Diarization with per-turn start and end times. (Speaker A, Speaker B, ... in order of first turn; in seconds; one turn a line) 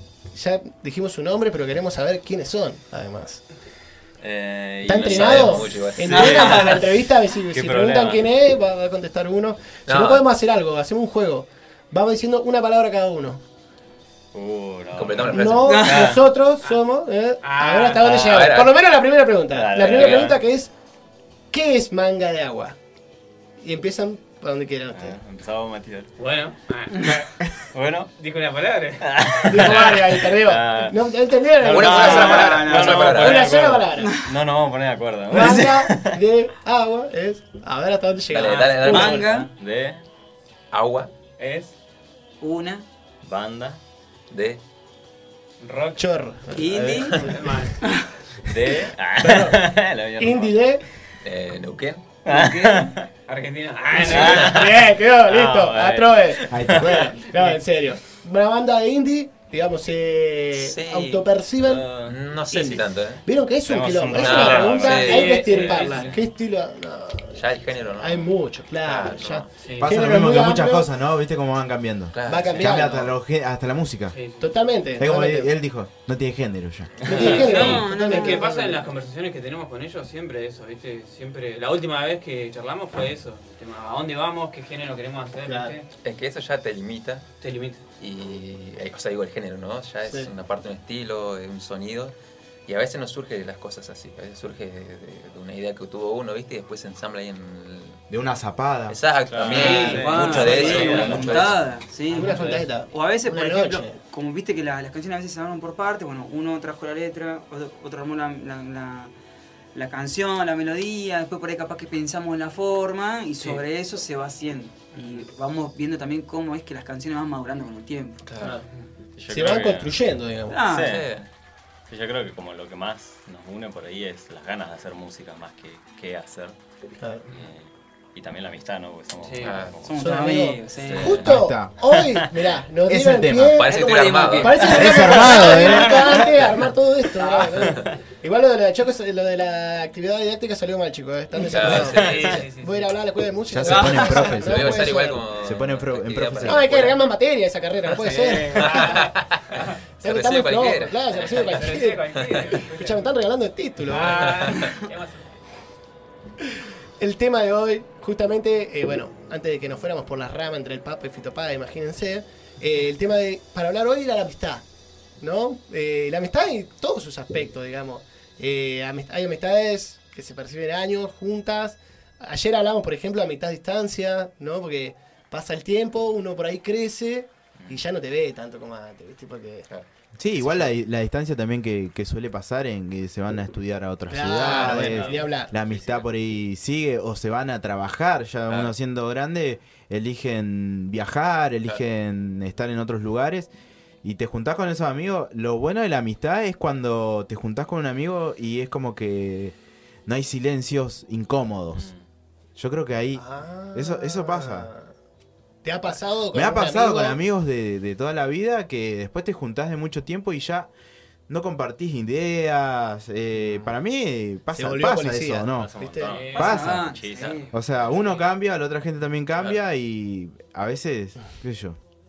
Speaker A: 0.3-3.4
Speaker B: 4.2-7.0
Speaker A: 4.8-13.4
Speaker C: 4.9-6.8
Speaker D: 6.1-6.6
Speaker B: 7.5-8.3
Speaker C: 9.9-10.3
Speaker B: 14.3-16.2
Speaker C: 14.9-15.8
Speaker A: 15.3-20.7
Speaker D: 15.7-16.1
Speaker E: 17.4-18.5
Speaker C: 18.1-18.8
Speaker B: 19.5-20.4
Speaker A: 21.5-22.8
Speaker A: 23.6-25.1
Speaker B: 24.9-26.1
Speaker E: 26.2-27.3
Speaker B: 27.1-28.1
Speaker E: 28.2-29.1
Speaker B: 29.0-31.0
Speaker A: 29.5-34.1
Speaker B: 31.6-36.2
Speaker C: 31.6-33.6
Speaker D: 31.9-33.3
Speaker D: 34.0-34.3
Speaker A: 35.3-39.0
Speaker C: 38.3-39.4
Speaker E: 38.4-39.5
Speaker D: 38.8-39.5
Speaker B: 39.5-40.0
Speaker C: 40.7-41.1
Speaker E: 41.4-41.8
Speaker D: 42.4-42.9
Speaker B: 43.2-43.8
Speaker C: 44.3-44.6
Speaker E: 45.6-46.0
Speaker A: 46.0-47.7
Speaker D: 46.5-48.1
Speaker B: 46.7-47.2
Speaker E: 47.3-47.8
Speaker B: 48.4-50.7
Speaker A: 49.2-50.8
Speaker C: 51.2-52.1
Speaker B: 52.2-53.1
Speaker D: 52.3-52.9
Speaker E: 53.3-54.7
Speaker A: 54.0-61.9
Speaker B: 54.0-57.6
Speaker F: 56.5-57.2
Speaker C: 60.5-61.2
Speaker B: 61.6-62.2
Speaker C: 62.0-63.2
Speaker A: 62.5-70.9
Speaker B: 63.7-66.1
Speaker C: 64.2-65.6
Speaker E: 64.7-66.2
Speaker C: 67.3-69.5
Speaker E: 69.6-69.9
Speaker F: 69.8-74.2
Speaker C: 72.1-73.1
Speaker A: 72.3-73.0
Speaker E: 74.1-74.6
Speaker A: 74.4-75.5
Speaker F: 75.0-77.0
Speaker B: 77.0-77.3
Speaker A: 77.1-78.9
Speaker E: 77.1-85.9
Speaker D: 77.2-78.5
Speaker A: 85.5-85.8
Speaker C: 86.0-87.2
Speaker E: 87.4-87.8
Speaker C: 88.0-92.2
Speaker A: 90.0-90.3
Speaker C: 92.7-98.0
Speaker F: 98.1-99.0
Speaker C: 98.9-101.7
Speaker B: 99.3-101.5
Speaker E: 99.5-101.2
Speaker D: 99.5-109.1
Speaker A: 100.4-100.8
Speaker A: 102.1-104.0
Speaker E: 102.1-102.7
Speaker D: 109.8-118.5
Speaker E: 114.9-115.3
Speaker A: 118.4-118.7
Speaker B: 119.2-120.0
Speaker A: 119.3-120.6
Speaker D: 120.5-121.1
Speaker B: 120.7-121.2
Speaker C: 120.8-121.3
Speaker B: 121.9-126.6
Speaker B: 127.3-131.3
Speaker E: 129.2-129.7
Speaker C: 129.5-129.8
Speaker D: 129.8-131.2
Speaker A: 130.0-145.2
Speaker F: 131.2-131.8
Speaker F: 132.9-133.7
Speaker C: 133.5-135.7
Speaker D: 133.7-134.8
Speaker B: 134.4-136.4
Speaker F: 134.7-136.2
Speaker C: 137.2-137.9
Speaker C: 141.4-142.4
Speaker E: 141.7-143.0
Speaker B: 141.7-142.3
Speaker F: 143.5-144.9
Speaker C: 143.8-147.0
Speaker F: 145.4-146.9
Speaker A: 146.4-149.0
Speaker E: 147.9-149.6
Speaker C: 148.5-152.6
Speaker A: 150.0-154.4
Speaker E: 151.2-153.1
Speaker E: 153.9-155.4
Speaker C: 154.0-154.7
Speaker D: 154.5-154.8
Speaker A: 157.0-164.7
Speaker A: 165.2-179.7
Speaker F: 180.2-193.5
Speaker A: 180.4-180.7
Speaker A: 184.1-185.5
Speaker B: 184.4-186.0
Speaker C: 188.5-188.7
Speaker F: 194.0-201.9
Speaker B: 201.8-202.0
Speaker F: 202.6-204.7
Speaker A: 203.2-204.9
Speaker A: 205.6-207.2
Speaker F: 206.3-210.7
Speaker F: 211.3-217.0
Speaker B: 213.4-213.7
Speaker A: 214.5-216.1
Speaker B: 215.5-217.5
Speaker E: 216.0-216.7
Speaker D: 216.2-217.5
Speaker F: 217.5-221.8
Speaker C: 219.4-219.6